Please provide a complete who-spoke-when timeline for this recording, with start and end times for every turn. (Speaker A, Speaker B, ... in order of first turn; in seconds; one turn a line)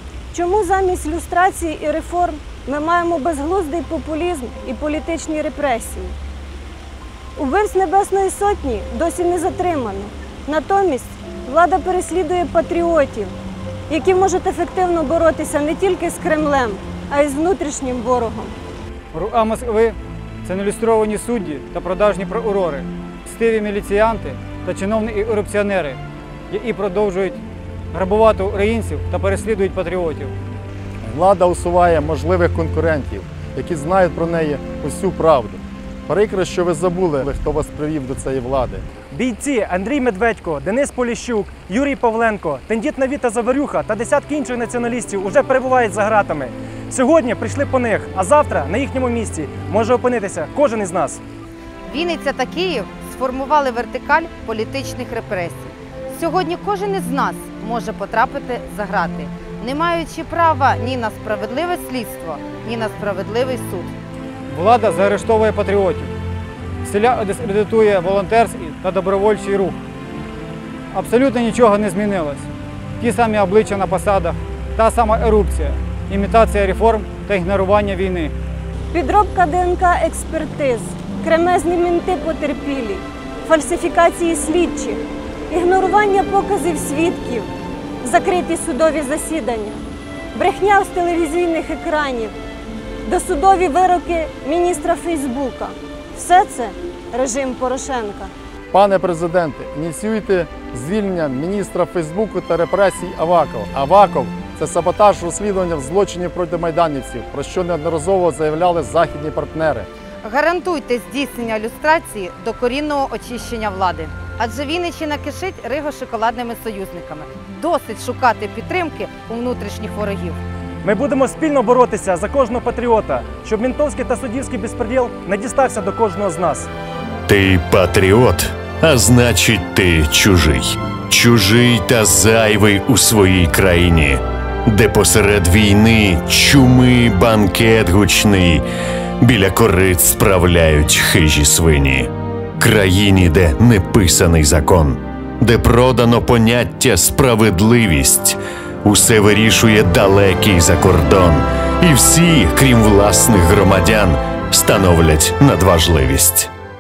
Speaker A: 0.3-6.2
Speaker A: 7.4-13.3
Speaker A: 13.9-18.6
Speaker B: 19.1-30.3
Speaker C: 31.0-38.9
Speaker D: 39.1-51.2
Speaker E: 51.9-63.9
Speaker B: 64.5-66.1
Speaker B: 66.8-69.8
Speaker B: 70.9-72.5
Speaker B: 73.0-78.3
Speaker A: 78.9-87.5
Speaker A: 88.0-89.8
Speaker A: 90.3-92.3
Speaker A: 93.0-98.3
Speaker C: 98.7-109.9
Speaker E: 110.2-120.4
Speaker D: 120.8-126.7
Speaker F: 127.3-138.6
Speaker F: 139.2-156.5